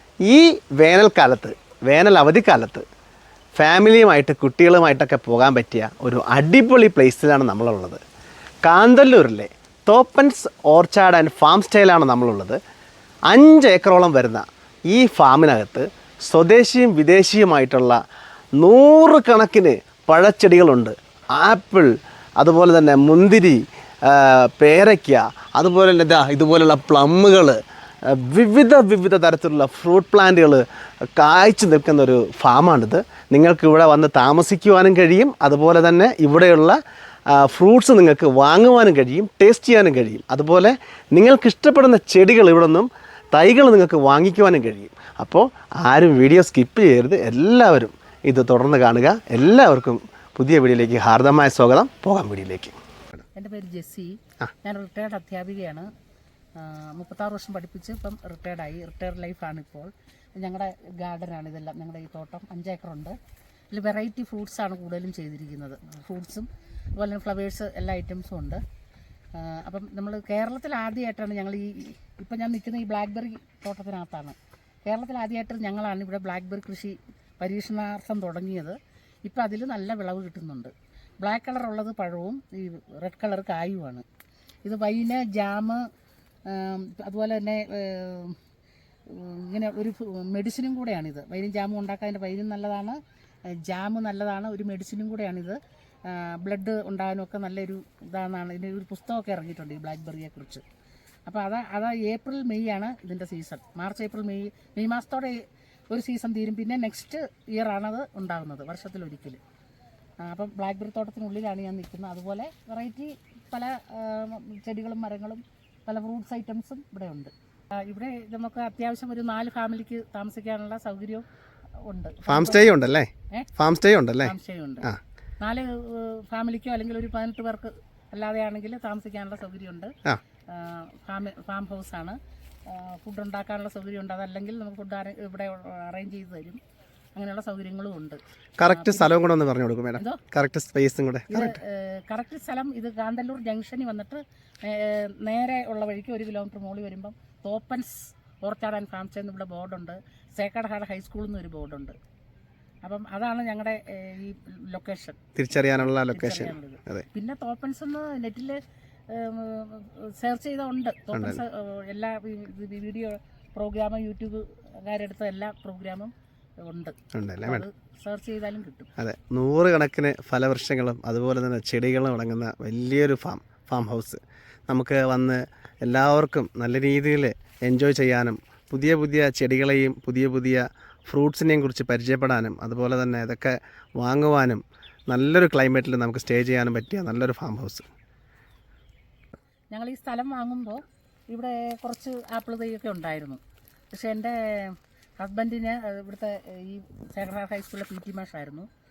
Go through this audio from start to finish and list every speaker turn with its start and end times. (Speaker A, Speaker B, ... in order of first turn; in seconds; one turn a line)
Speaker A: 0.2-2.9
Speaker A: 3.6-8.0
Speaker A: 8.7-12.6
Speaker A: 13.3-18.0
Speaker A: 18.6-36.8
Speaker A: 37.3-53.2
Speaker B: 53.4-55.9
Speaker B: 56.6-63.2
Speaker B: 63.7-68.6
Speaker B: 69.3-74.4
Speaker B: 74.9-84.0
Speaker B: 84.7-85.9
Speaker B: 86.5-88.4
Speaker B: 89.1-100.6
Speaker B: 101.3-109.4
Speaker B: 110.2-121.2
Speaker B: 121.8-122.7
Speaker A: 122.3-125.0
Speaker B: 124.2-124.9
Speaker B: 125.4-129.9
Speaker B: 130.5-136.6
Speaker B: 137.2-139.2
Speaker A: 138.6-141.6
Speaker B: 140.0-140.2
Speaker B: 141.3-152.0
Speaker B: 152.8-155.2
Speaker A: 155.4-157.1
Speaker B: 155.8-168.9
Speaker A: 161.1-161.4
Speaker A: 167.1-167.7
Speaker A: 169.0-187.9
Speaker B: 189.7-198.7